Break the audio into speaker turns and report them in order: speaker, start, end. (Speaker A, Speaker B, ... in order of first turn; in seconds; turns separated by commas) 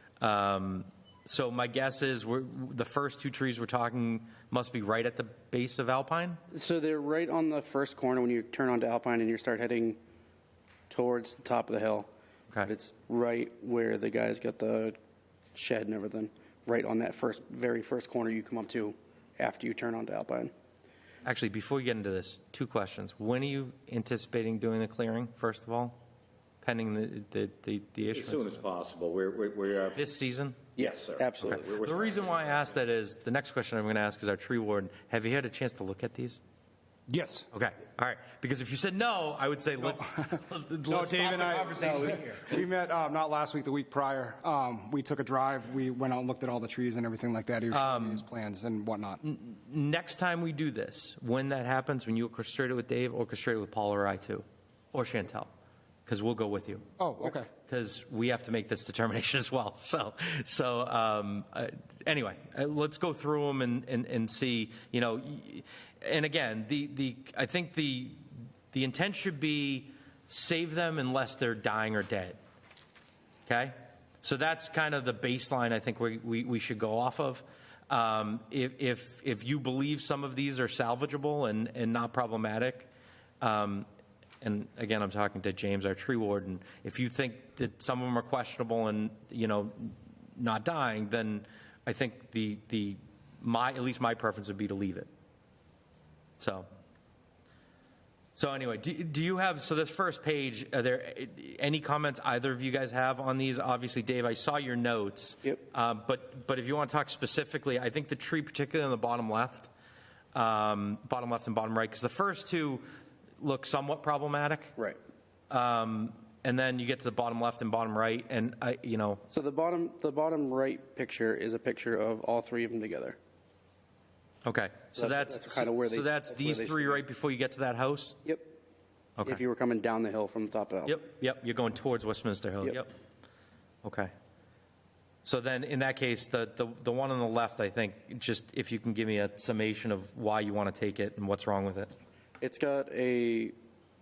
Speaker A: 0.2-6.4, Speaker B: 6.5-10.0, Speaker B: 10.9-12.1, Speaker B: 12.7-15.0, Speaker B: 15.5-20.5, Speaker A: 21.2-26.0, Speaker A: 26.6-28.6, Speaker C: 28.1-30.1, Speaker A: 30.0-30.7, Speaker B: 30.8-31.7, Speaker C: 30.8-32.8, Speaker A: 31.5-36.4, Speaker D: 37.1-37.5, Speaker A: 37.5-42.6, Speaker D: 40.9-49.2, Speaker A: 47.7-48.2, Speaker A: 49.2-55.5, Speaker A: 56.1-72.4, Speaker D: 57.0-57.5, Speaker A: 73.5-82.9, Speaker A: 83.4-83.9, Speaker A: 84.4-95.1, Speaker A: 96.4-96.7, Speaker A: 98.4-109.7, Speaker A: 110.3-112.8, Speaker A: 113.4-114.8, Speaker A: 115.5-119.2, Speaker B: 119.3-123.2, Speaker A: 124.5-128.2, Speaker B: 125.0-127.0, Speaker B: 128.2-128.5, Speaker B: 129.2-131.0, Speaker A: 130.9-132.9, Speaker A: 133.8-134.1, Speaker A: 135.2-141.9, Speaker B: 142.4-143.6